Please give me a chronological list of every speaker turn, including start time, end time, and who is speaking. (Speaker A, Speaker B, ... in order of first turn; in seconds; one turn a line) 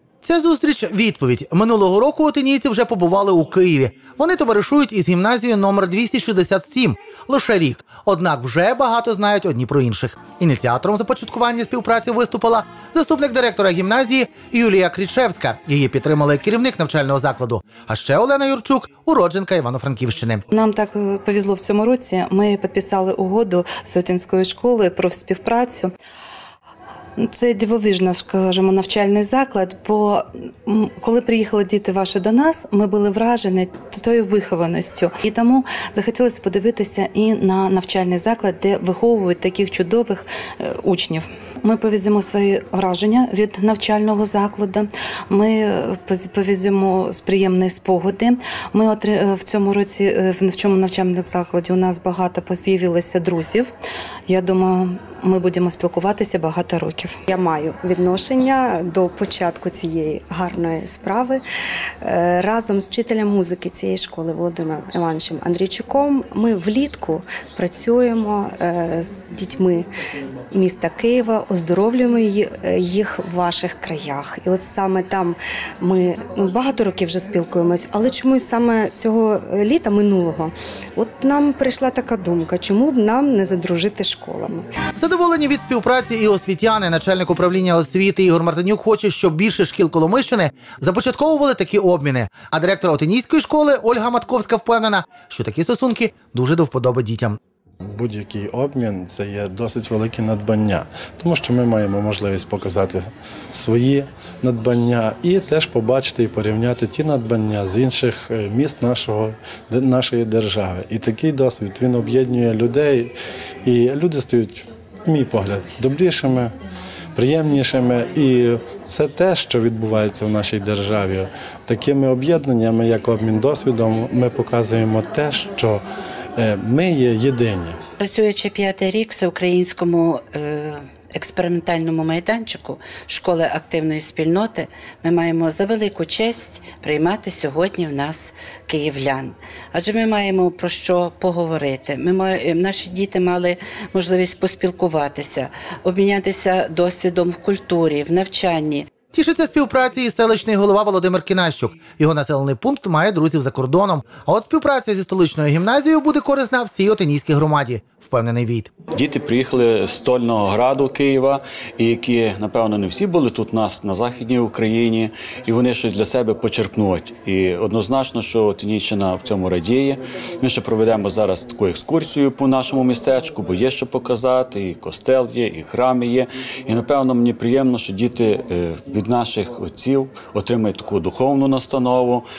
Speaker A: 0.2-20.4
Speaker B: 20.5-25.9
Speaker B: 27.2-53.7
Speaker B: 54.3-57.1
Speaker C: 57.3-61.4
Speaker C: 62.0-69.9
Speaker C: 70.5-84.7
Speaker A: 85.0-97.4
Speaker D: 97.9-113.1
Speaker D: 113.6-116.5
Speaker D: 117.2-125.8
Speaker D: 126.4-127.8
Speaker E: 128.0-148.9
Speaker A: 149.1-158.7
Speaker F: 158.9-182.2